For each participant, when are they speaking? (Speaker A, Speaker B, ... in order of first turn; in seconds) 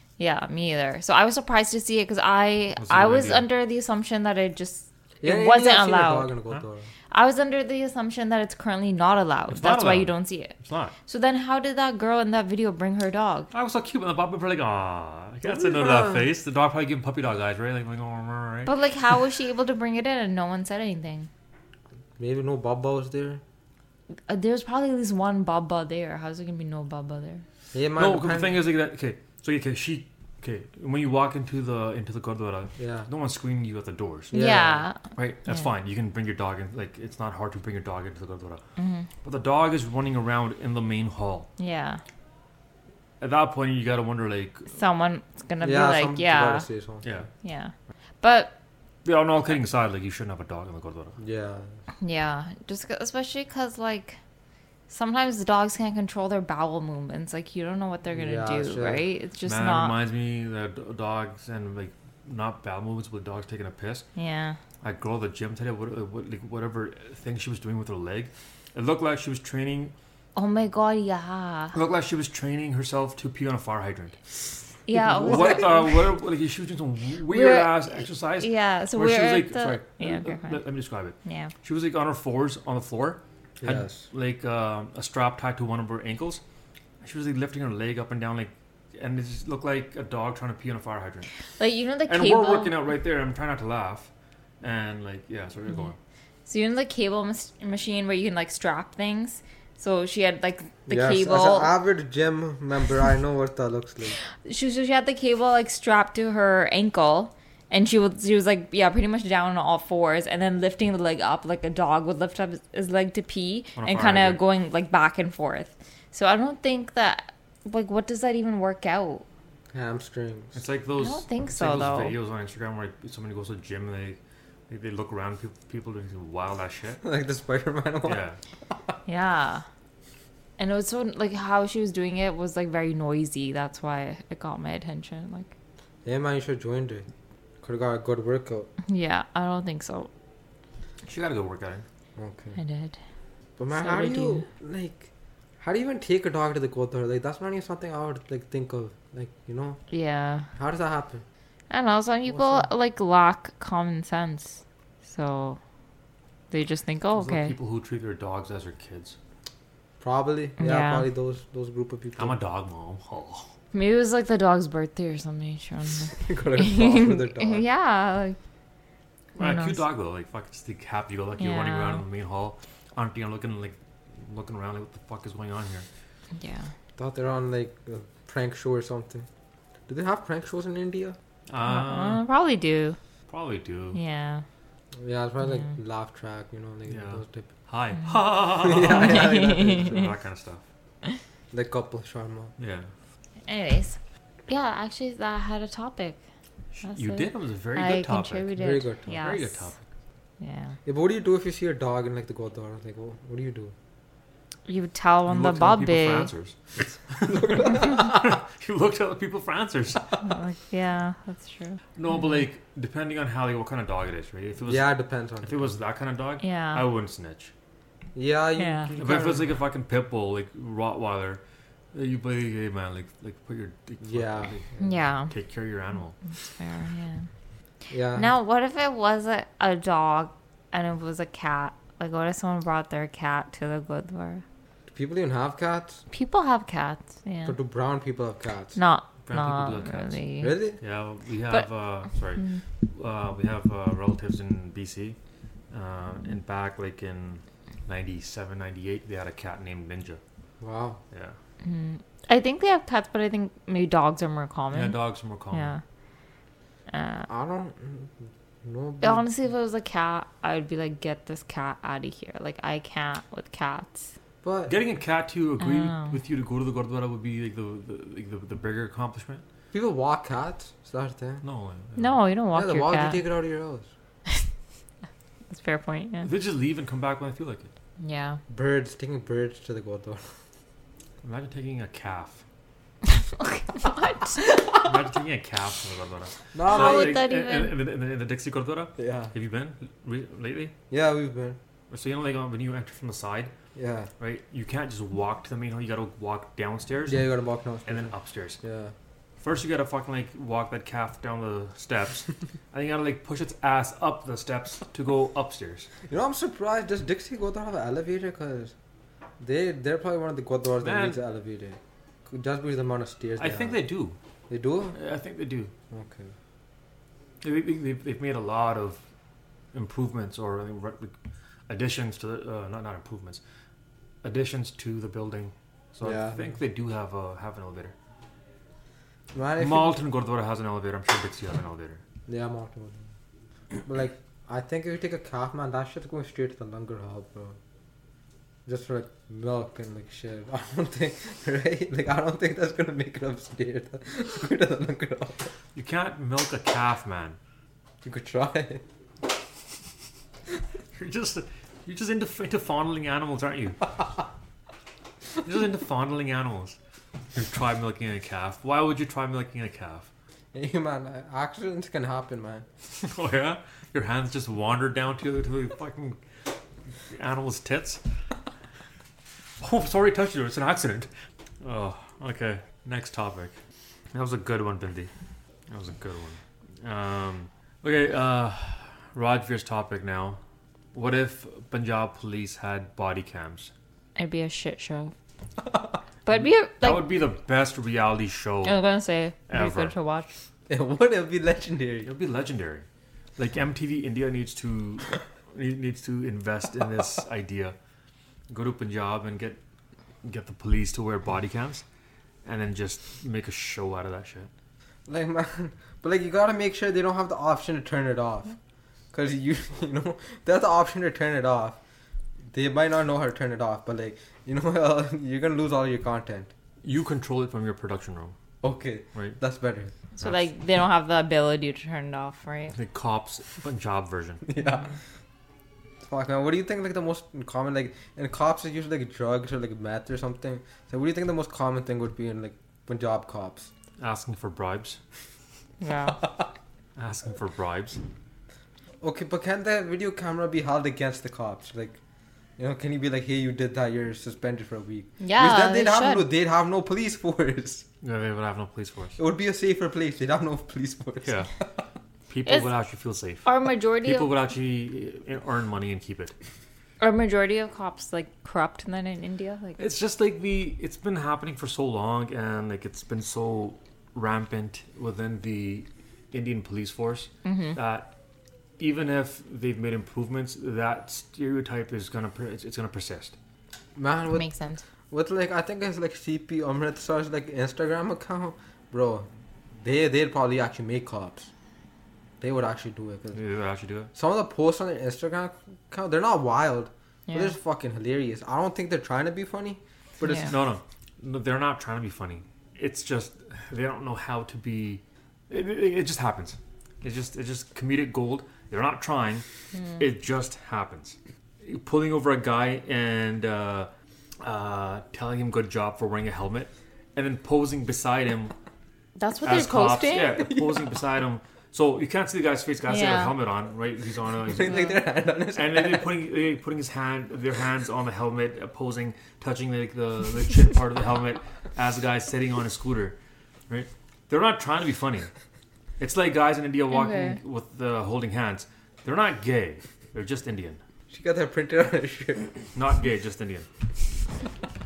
Speaker A: 0.2-6.3, 7.1-10.6, 11.1-13.5, 18.6-21.3, 24.3-27.4, 34.3-35.7, 38.8-39.1, 41.6-42.0, 44.7-46.6, 47.4-48.5, 52.0-54.2, 54.9-60.0, 64.2-64.6, 70.3-71.8, 74.9-75.9, 77.3-77.8, 78.4-80.6, 81.2-81.5, 91.6-92.8, 96.5-101.7, 104.4-119.3, 121.0-122.2, 129.1-129.6, 130.6-135.5, 138.9-140.1, 142.6-143.0, 143.7-144.4, 149.9-150.5, 151.7-155.6, 156.5-157.6, 160.6-161.1, 163.7-168.4, 169.4-169.8, 171.4-172.0, 176.3-176.7, 181.7-183.0, 183.9-184.4, 185.4-185.7, 188.8-190.0, 193.4-196.2, 196.8-199.7, 200.4-200.8, 204.7-206.3, 210.2-212.4, 216.4-216.8, 218.6-218.9, 224.8-225.3, 226.6-227.3, 228.1-234.4, 236.1-237.6, 238.8-240.6, 242.4-242.6, 251.6-255.0, 255.5-255.8, 256.9-257.3, 259.0-264.1, 265.6-266.1, 272.0-273.2, 275.5-276.3, 278.0-278.4, 283.1-284.5, 286.7-287.8, 384.1-385.1, 386.3-387.1, 388.6-390.3, 420.2-422.8, 435.8-436.2, 445.2-446.2, 453.4-454.3, 457.0-459.8, 467.4-467.8, 474.4-474.8, 487.3-487.5, 490.2-490.5, 499.7-500.0, 509.2-510.4, 512.9-513.4, 514.6-515.0, 526.9-527.4
Speaker B: 2.8-3.5, 9.5-10.9, 13.5-18.7, 28.0-34.4, 35.1-38.6, 39.2-41.5, 43.2-44.7, 47.0-47.3, 49.0-51.2, 59.4-64.1, 64.8-69.9, 71.7-74.2, 75.2-86.4, 87.0-91.3, 92.1-96.0, 113.8-114.4, 120.5-127.0, 128.1-128.4, 141.1-141.9, 157.2-159.2, 162.2-163.5, 169.4-175.9, 181.5-182.2, 183.3-184.0, 186.9-190.6, 192.6-192.9, 196.8-198.5, 199.1-199.8, 205.3-210.2, 211.9-217.5, 219.0-221.4, 221.9-224.7, 225.3-226.2, 239.3-240.2, 240.8-245.2, 245.7-250.2, 251.1-251.4, 254.7-255.7, 264.7-269.4, 271.4-272.2, 276.2-277.7, 281.2-282.4, 284.8-290.7, 291.9-293.5, 294.2-297.3, 297.9-298.6, 299.4-305.9, 310.8-311.2, 313.4-314.2, 314.9-315.7, 317.4-319.0, 319.7-321.1, 321.7-323.4, 324.2-327.9, 329.6-332.0, 345.8-347.4, 350.9-353.9, 355.4-356.8, 357.3-360.1, 363.0-366.2, 367.1-368.0, 369.6-371.1, 371.6-373.6, 374.1-375.1, 375.7-380.4, 380.9-383.7, 386.8-388.8, 389.5-389.9, 392.1-397.8, 398.5-399.6, 400.2-401.8, 402.4-404.5, 416.8-418.4, 420.2-420.5, 422.7-424.4, 434.0-435.0, 437.0-438.0, 448.0-449.2, 451.2-451.5, 452.3-456.4, 459.8-468.1, 468.8-473.4, 483.3-484.1, 490.4-499.4, 500.0-508.5, 509.4-514.9, 515.5-523.2, 523.7-525.3, 526.0-530.8, 532.8-533.7
Speaker C: 5.2-6.9, 15.5-16.2, 22.2-23.4, 27.7-28.6, 32.8-33.1, 34.3-34.9, 45.6-47.1, 51.2-51.7, 58.1-59.0, 74.9-75.7, 83.6-84.1, 100.9-104.2, 119.7-120.6, 127.0-128.2, 136.1-137.1, 137.6-138.7, 142.2-142.6, 143.6-145.1, 145.6-149.8, 150.6-151.2, 152.3-152.7, 160.0-162.4, 166.2-167.6, 177.0-179.3, 179.9-181.2, 185.0-187.5, 188.6-190.1, 191.5-192.5, 198.6-199.2, 200.8-203.7, 207.3-208.2, 214.6-215.8, 218.1-219.5, 224.0-224.9, 227.9-228.3, 234.9-236.0, 237.4-238.8, 240.4-240.8, 250.6-251.0, 257.3-259.3, 264.4-264.8, 269.7-271.4, 272.5-273.9, 278.5-280.3, 286.5-287.2, 289.0-289.3, 290.9-291.6, 293.8-294.1, 297.1-298.9, 306.1-308.7, 309.4-313.8, 314.5-314.9, 315.9-316.3, 326.0-326.6, 329.3-330.0, 332.3-333.1, 333.8-337.6, 338.6-345.5, 348.0-348.8, 360.5-362.6, 390.7-392.1, 405.1-408.6, 409.1-411.8, 412.5-416.5, 418.6-419.9, 424.4-424.9, 426.1-433.7, 439.0-442.0, 442.6-447.9, 449.2-451.6, 473.9-474.5, 475.1-481.5, 482.4-483.4, 484.1-490.6, 510.3-510.9, 514.5-516.1, 531.1-532.5